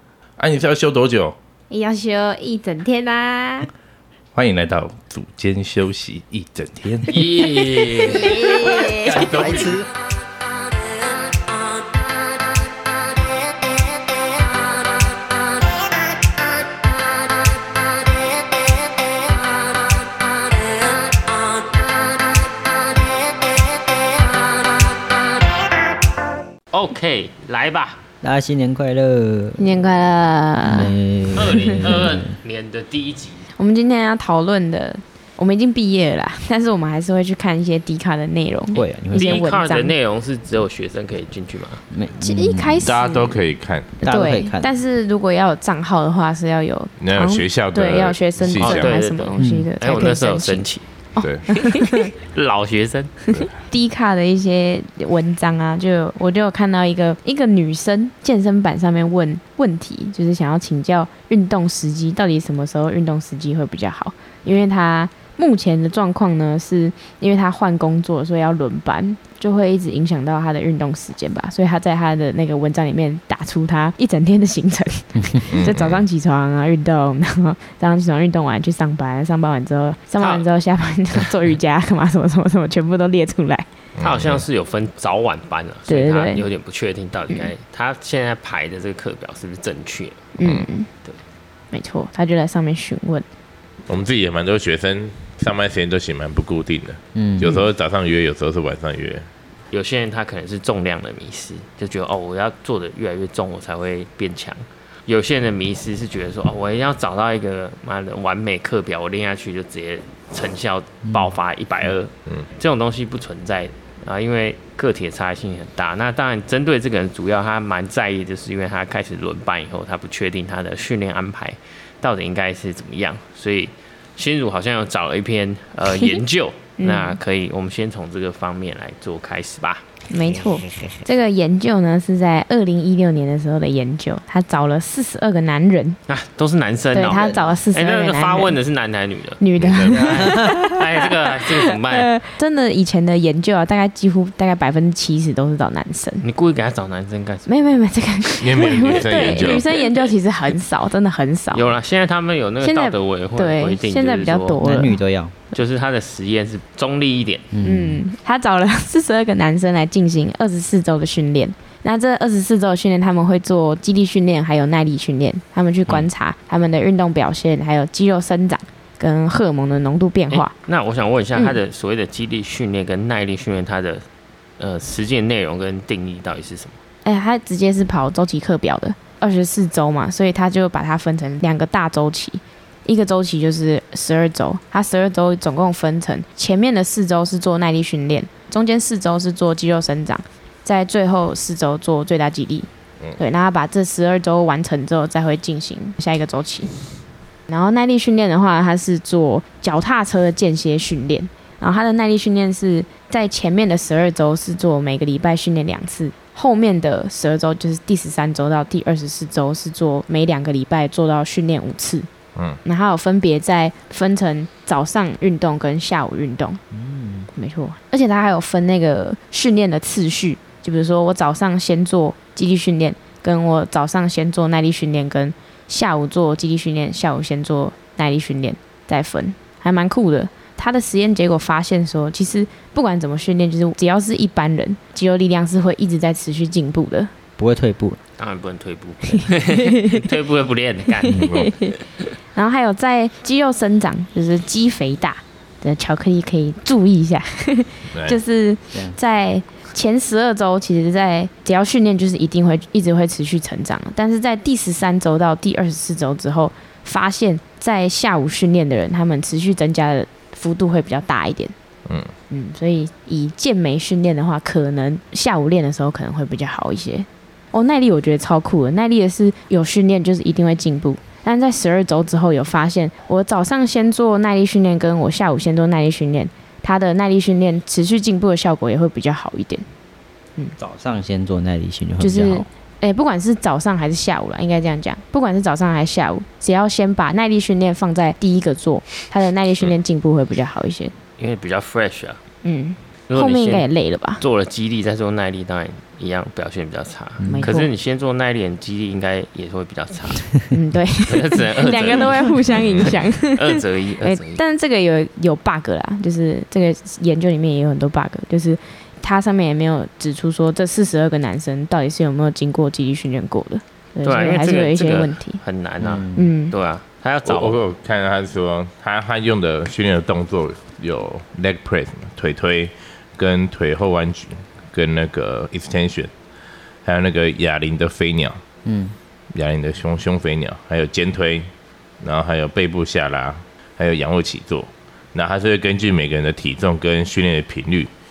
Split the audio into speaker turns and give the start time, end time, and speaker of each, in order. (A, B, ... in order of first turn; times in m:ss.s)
0:00.4-0:01.4 A
0:01.7-0:03.7 B
0:04.4-0:07.3 A
0:07.1-0:08.9 C
0:07.6-0:09.3 B
0:09.0-0:09.9 D
0:09.0-0:09.8 A
0:26.7-0:28.0 C
0:28.2-0:29.8 D
0:29.6-0:30.9 B
0:30.6-0:32.3 D
0:31.3-0:33.5 C
0:33.6-0:39.9 B
0:38.7-0:39.5 D
0:39.1-0:41.8 C
0:41.9-0:42.9 D
0:42.2-0:43.4 B
0:42.8-0:44.0 A
0:44.0-0:44.7 D
0:44.0-0:52.1 B
0:47.0-0:49.0 A
0:48.6-0:50.8 C
0:49.4-0:49.7 D
0:51.2-0:51.5 A
0:51.6-0:53.2 C
0:53.3-1:23.7 B
1:15.5-1:16.0 A
1:20.2-1:20.4 C
1:24.0-1:24.4 A
1:24.0-1:30.3 C
1:25.9-1:26.4 B
1:30.4-1:30.9 B
1:31.7-1:33.3 B
1:33.9-1:39.3 A
1:37.2-1:37.6 D
1:39.7-2:09.9 C
2:06.8-2:07.2 B
2:10.1-2:16.0 B
2:16.1-2:22.1 C
2:16.9-2:18.6 B
2:19.4-2:26.2 B
2:19.6-2:20.3 A
2:20.0-2:20.6 D
2:26.2-2:27.5 C
2:27.5-2:31.7 B
2:28.4-2:29.7 A
2:28.8-2:30.1 C
2:31.5-2:34.6 C
2:32.6-2:35.0 B
2:34.6-2:35.4 D
2:35.5-2:37.5 C
2:37.5-2:38.0 D
2:37.6-2:50.5 B
2:50.3-2:54.0 C
2:54.6-2:56.8 C
2:57.0-3:16.7 B
3:17.5-3:32.1 B
3:32.6-3:36.6 B
3:36.7-3:37.3 D
3:37.4-3:57.1 B
3:57.4-3:58.0 D
3:58.2-4:01.4 C
3:59.1-4:00.0 B
4:01.1-4:01.3 D
4:01.2-4:01.5 A
4:01.2-4:01.8 B
4:02.4-4:21.5 B
4:07.9-4:08.2 A
4:21.9-4:22.1 A
4:22.3-4:39.7 B
4:40.6-4:42.5 D
4:42.0-4:50.9 B
4:51.2-4:52.2 C
4:52.4-4:54.2 B
4:53.1-4:53.7 C
4:54.2-5:00.4 C
4:57.2-4:57.5 D
4:57.2-4:57.7 B
5:00.5-5:15.4 B
5:01.1-5:04.4 C
5:02.5-5:02.9 A
5:14.0-5:17.6 C
5:15.8-5:16.3 D
5:16.2-5:16.5 B
5:17.3-5:26.1 A
5:26.8-5:28.4 A
5:28.6-5:29.0 D
5:29.3-5:31.5 A
5:32.0-5:37.9 A